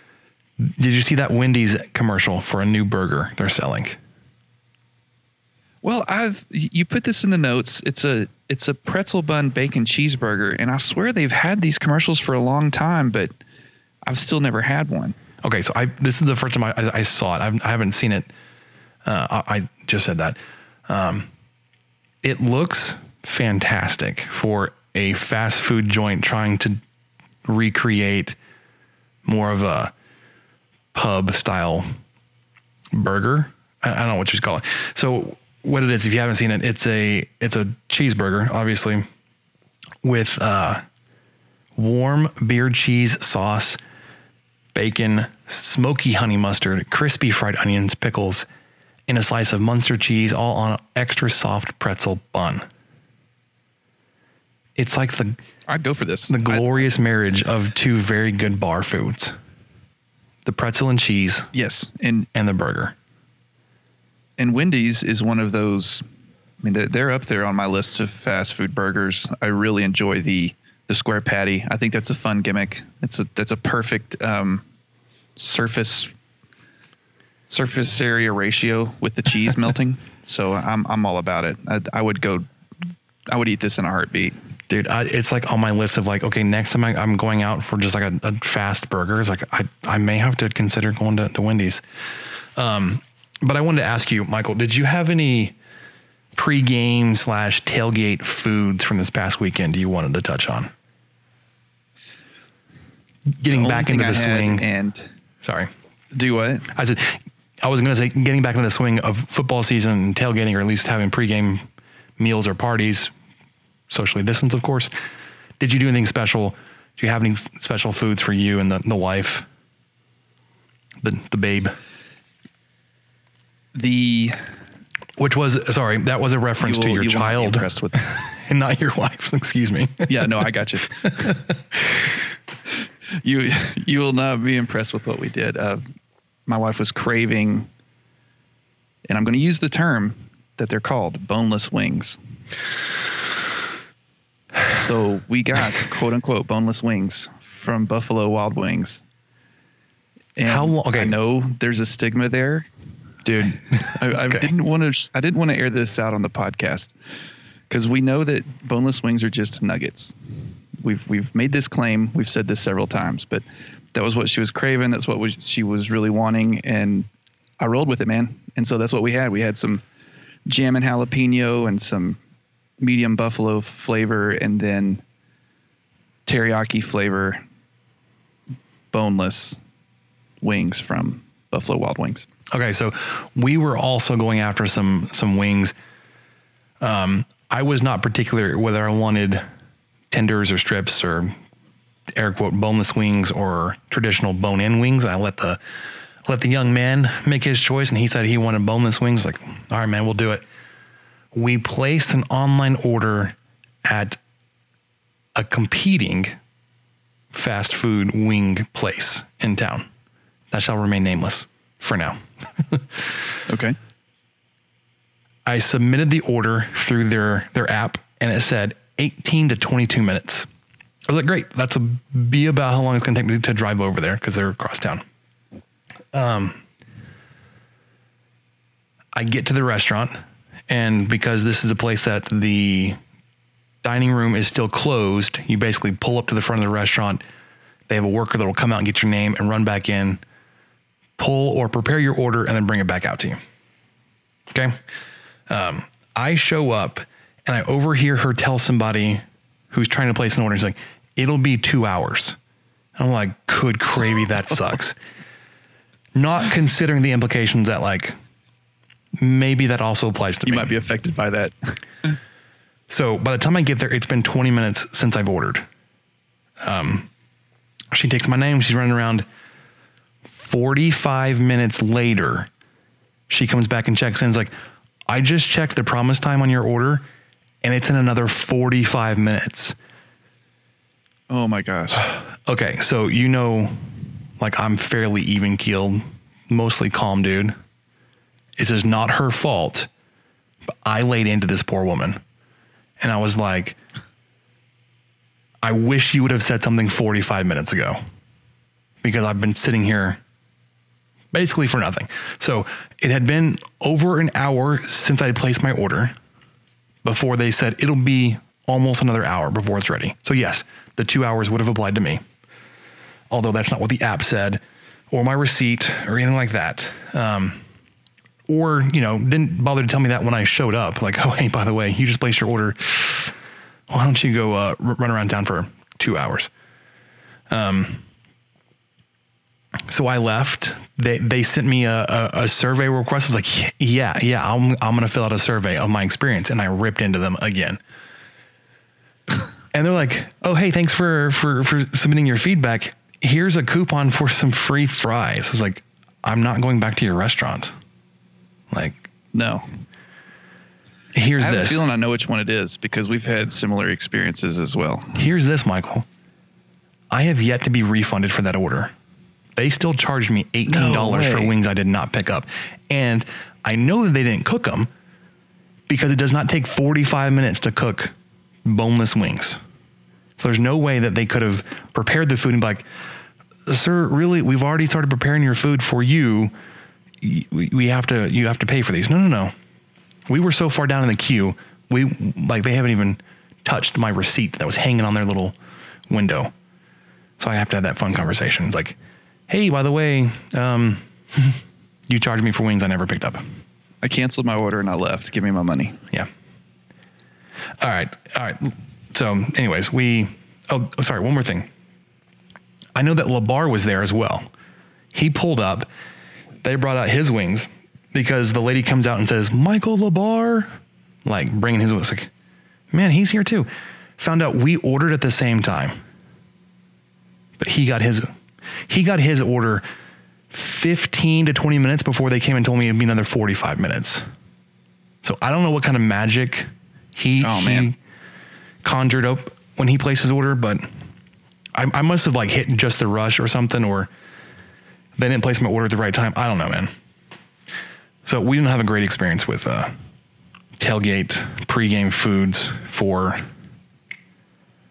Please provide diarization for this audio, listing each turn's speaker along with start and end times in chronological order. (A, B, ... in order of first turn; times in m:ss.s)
0:00.6-0:04.0 A
0:05.8-0:13.3 B
0:14.1-0:15.2 B
0:15.4-0:18.3 A
0:19.0-0:21.3 A
0:22.2-0:26.8 A
0:27.4-0:28.4 A
0:29.2-0:29.9 A
0:30.9-0:31.9 A
0:32.9-0:39.0 A
0:40.0-0:40.8 A
0:41.8-0:43.8 A
0:44.7-0:48.5 A
0:49.1-0:52.7 A
0:54.8-0:55.4 A
0:55.7-0:56.9 B
0:56.3-0:59.4 A
1:00.4-1:01.5 A
1:01.5-1:02.3 B
1:02.4-1:03.0 A
1:04.4-1:06.0 B
1:06.6-1:14.6 B
1:15.4-1:16.1 B
1:17.5-1:22.5 B
1:23.3-1:24.4 B
1:24.7-1:35.6 A
1:36.4-1:40.7 A
1:43.4-1:44.6 A
1:43.5-1:45.1 B
1:45.4-1:45.7 A
1:46.1-1:46.7 B
1:46.7-1:51.7 A
1:52.2-1:53.1 A
1:53.9-1:54.9 A
1:55.6-1:59.5 A
2:01.0-2:01.8 A
2:03.8-2:04.4 B
2:05.2-2:12.2 A
2:06.6-2:08.1 B
2:10.1-2:11.0 B
2:13.2-2:15.8 B
2:16.5-2:17.7 B
2:19.1-2:22.2 B
2:24.8-2:29.0 B
2:30.4-2:32.7 B
2:30.4-2:31.2 A
2:33.2-2:34.5 A
2:33.9-2:36.9 B
2:37.7-2:40.2 B
2:40.8-2:47.1 B
2:47.6-2:49.8 B
2:50.5-2:52.2 B
2:52.8-2:55.0 B
2:56.3-2:57.4 B
2:58.9-2:59.6 B
3:00.4-3:02.3 B
3:02.5-3:05.8 A
3:06.8-3:09.4 A
3:10.1-3:11.4 A
3:12.1-3:15.6 A
3:16.2-3:20.4 A
3:21.3-3:24.2 A
3:25.4-3:26.4 A
3:27.3-3:29.9 A
3:30.5-3:33.2 A
3:33.5-3:33.8 B
3:35.5-3:40.5 A
3:41.1-3:45.0 A
3:46.1-3:46.6 A
3:49.2-3:53.0 A
3:53.8-3:57.2 A
3:57.9-4:00.2 A
4:01.2-4:03.4 A
4:04.5-4:04.8 A
4:05.5-4:12.4 A
4:13.0-4:15.0 A
4:16.2-4:18.2 A
4:19.2-4:20.7 A
4:20.5-4:22.2 B
4:22.9-4:25.7 A
4:26.6-4:27.1 A
4:27.9-4:29.3 A
4:30.3-4:32.5 A
4:33.3-4:34.5 A
4:35.1-4:37.1 A
4:37.6-4:39.8 A
4:41.3-4:42.1 B
4:42.0-4:47.6 A
4:48.6-4:49.9 A
4:50.8-4:52.2 A
4:53.0-4:53.8 A
4:55.6-4:58.0 A
4:59.0-5:00.2 A
5:01.3-5:06.2 A
5:07.0-5:12.2 A
5:13.3-5:17.6 A
5:18.5-5:23.4 A
5:23.9-5:26.5 A
5:27.5-5:28.0 A
5:29.9-5:37.8 A
5:39.7-5:47.8 A
5:48.7-5:49.1 A
5:49.3-5:49.6 B
5:51.1-5:51.8 A
5:51.4-5:55.2 B
5:55.2-5:56.1 A
5:57.1-5:58.9 A
5:59.6-6:04.9 A
6:00.7-6:01.5 B
6:05.9-6:09.6 A
6:10.4-6:12.8 A
6:13.7-6:16.5 A
6:17.2-6:19.5 A
6:20.3-6:25.6 A
6:26.1-6:26.5 A
6:27.4-6:29.0 A
6:29.5-6:33.4 A
6:34.0-6:36.0 B
6:37.8-6:41.7 A
6:43.0-6:44.5 A
6:45.1-6:45.9 A
6:46.6-6:50.7 A
6:51.2-6:52.3 A
6:52.9-6:56.0 A
6:57.6-6:58.3 A
6:58.9-6:59.8 A
7:00.5-7:04.3 A
7:05.2-7:08.0 A
7:07.4-7:07.9 B
7:08.8-7:10.9 A
7:11.7-7:14.1 A
7:15.2-7:16.9 A
7:18.2-7:19.9 A
7:20.8-7:23.5 A